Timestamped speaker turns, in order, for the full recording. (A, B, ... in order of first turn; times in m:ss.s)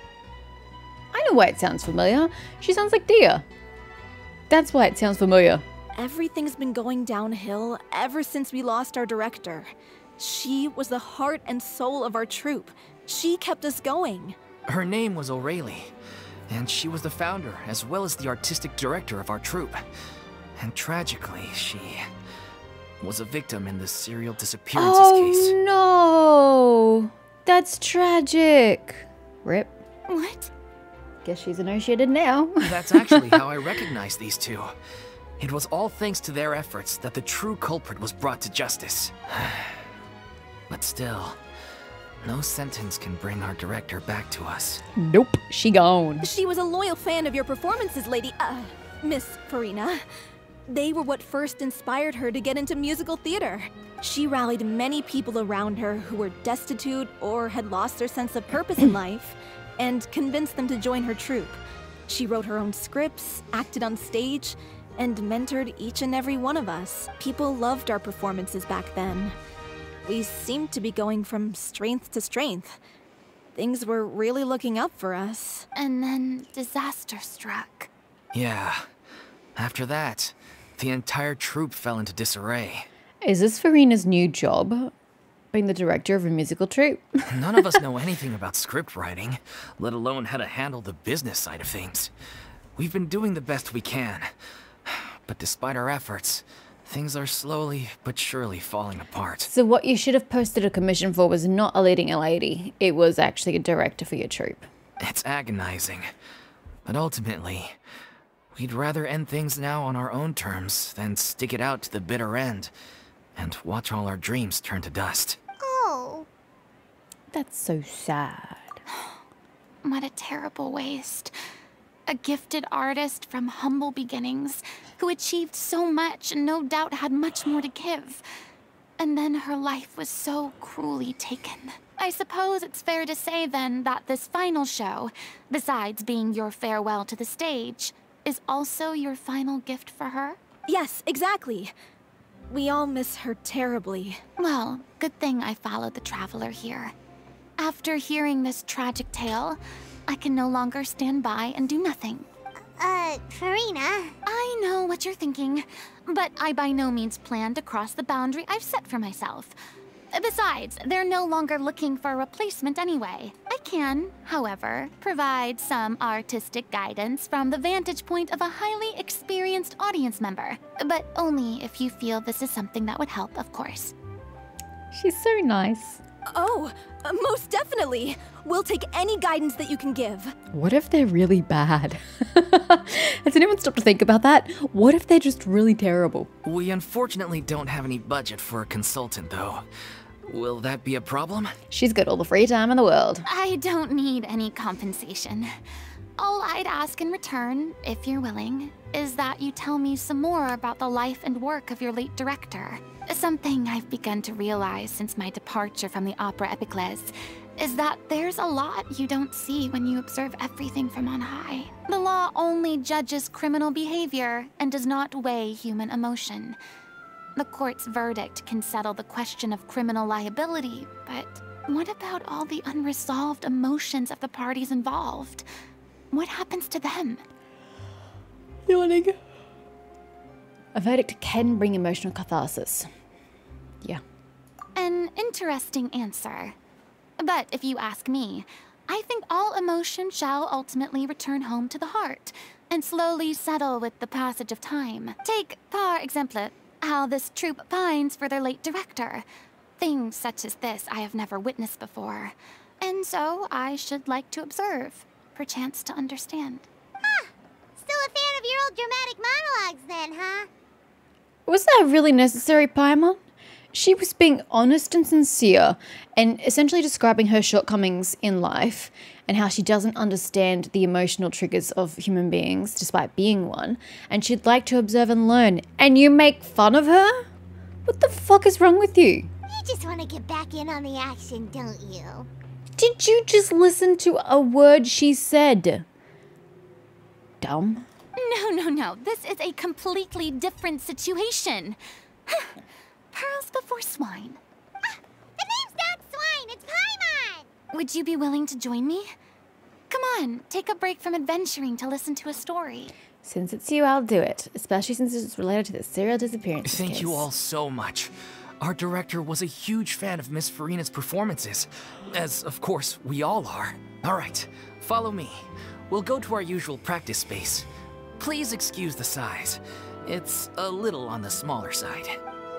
0:01.1-0:03.4 A
0:04.5-0:05.6 A
0:06.0-0:14.4 B
0:14.7-0:15.9 C
0:16.5-0:19.8 C
0:20.6-0:22.0 C
0:23.0-0:25.6 C
0:24.7-0:29.7 A
0:30.1-0:30.5 D
0:31.2-0:33.5 A
0:32.6-0:34.7 C
0:35.4-0:39.8 C
0:40.7-0:41.4 C
0:42.2-0:44.8 C
0:44.9-0:46.3 A
0:46.2-0:50.0 B
0:50.7-1:09.3 B
1:10.0-1:12.8 B
1:13.5-1:15.6 B
1:15.7-1:17.9 D
1:18.3-1:18.9 C
1:19.6-1:22.9 C
1:23.2-1:24.9 A
1:25.5-1:27.8 A
1:27.3-1:32.1 C
1:32.8-1:34.3 C
1:34.8-1:39.5 C
1:39.5-1:44.6 A
1:45.0-1:46.1 C
1:46.8-1:47.8 C
1:48.5-1:52.7 C
1:53.4-1:55.4 C
1:55.6-1:56.3 E
1:57.3-1:58.8 A
1:59.8-2:01.3 D
2:02.1-2:08.2 D
2:09.0-2:20.4 D
2:20.7-2:21.7 B
2:22.5-2:24.2 B
2:24.4-2:26.9 D
2:27.6-2:32.3 D
2:32.8-2:34.2 E
2:34.2-2:39.6 D
2:40.1-2:53.9 D
2:54.9-2:56.0 A
2:56.3-3:00.3 B
3:00.5-3:06.3 A
3:06.4-3:09.6 C
3:10.2-3:11.6 C
3:11.7-3:13.2 A
3:13.2-3:15.5 D
3:16.2-3:36.6 D
3:37.4-3:45.4 D
3:46.1-3:47.2 D
3:48.7-3:49.2 A
3:50.7-3:52.9 A
3:54.7-3:56.6 D
3:57.2-4:09.2 D
4:09.8-4:16.6 D
4:17.0-4:20.5 E
4:21.5-4:23.2 A
4:23.7-4:37.3 A
4:37.8-4:39.3 A
4:39.5-4:42.3 E
4:42.8-4:45.8 A
4:47.4-4:47.8 A
4:48.2-4:52.6 D
4:53.1-4:54.4 D
4:54.8-4:57.5 E
4:57.7-4:59.1 D
4:59.9-5:02.9 D
5:03.2-5:07.3 A
5:06.6-5:17.7 C
5:18.2-5:22.2 C